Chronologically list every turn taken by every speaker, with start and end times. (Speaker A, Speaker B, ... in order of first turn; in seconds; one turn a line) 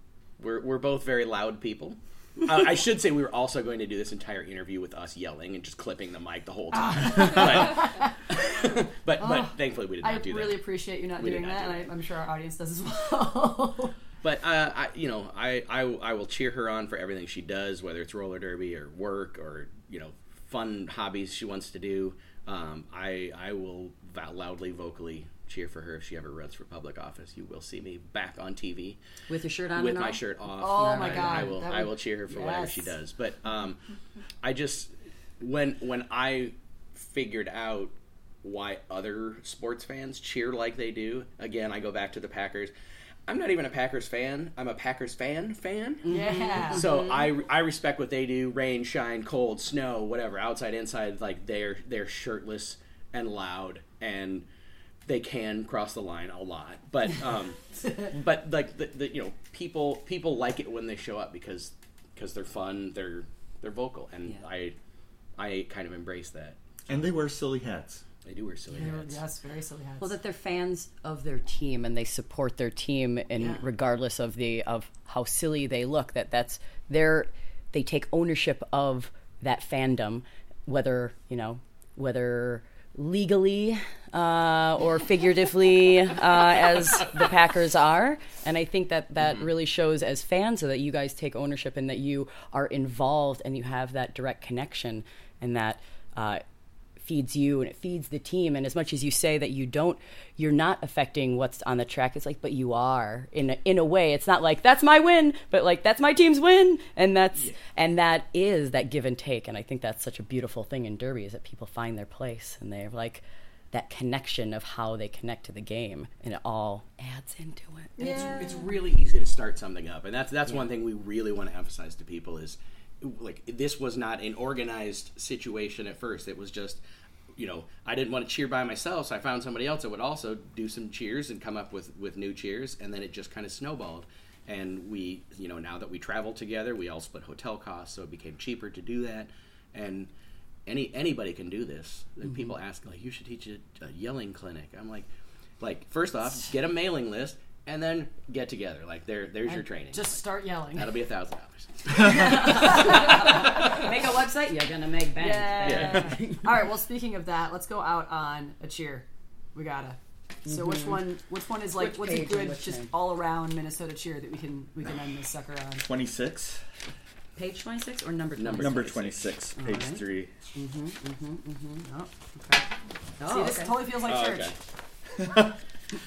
Speaker A: 0.4-10.6
Speaker B: 6.8-8.1
Speaker B: 9.2-13.9
Speaker A: 11.2-11.8
Speaker A: 14.2-29.0
Speaker C: 29.3-30.2
Speaker A: 29.7-33.8
Speaker B: 30.6-32.8
Speaker C: 30.9-31.6
Speaker A: 34.4-42.7
Speaker A: 43.3-54.5
Speaker C: 46.1-46.8
Speaker B: 46.1-47.0
Speaker A: 55.0-64.7
Speaker A: 65.4-67.1
Speaker D: 66.9-68.0
Speaker A: 68.2-69.2
Speaker B: 68.7-70.2
Speaker C: 70.0-96.4
Speaker A: 73.4-73.7
Speaker A: 86.6-87.3
Speaker C: 97.0-118.3
Speaker B: 118.0-118.8
Speaker A: 118.0-126.8
Speaker A: 127.3-140.1
Speaker A: 140.7-145.1
Speaker A: 145.6-150.1
Speaker B: 149.5-151.0
Speaker A: 150.7-152.8
Speaker C: 152.0-156.7
Speaker B: 152.1-153.9
Speaker B: 155.2-165.9
Speaker A: 155.6-156.0
Speaker C: 160.5-161.0
Speaker C: 161.7-162.9
Speaker D: 165.8-166.6
Speaker C: 167.3-170.0
Speaker A: 168.3-169.2
Speaker D: 168.6-170.5
Speaker C: 170.5-171.9
Speaker B: 171.8-172.6
Speaker C: 173.2-173.9
Speaker B: 173.2-174.5
Speaker A: 173.9-174.5
Speaker D: 175.2-175.5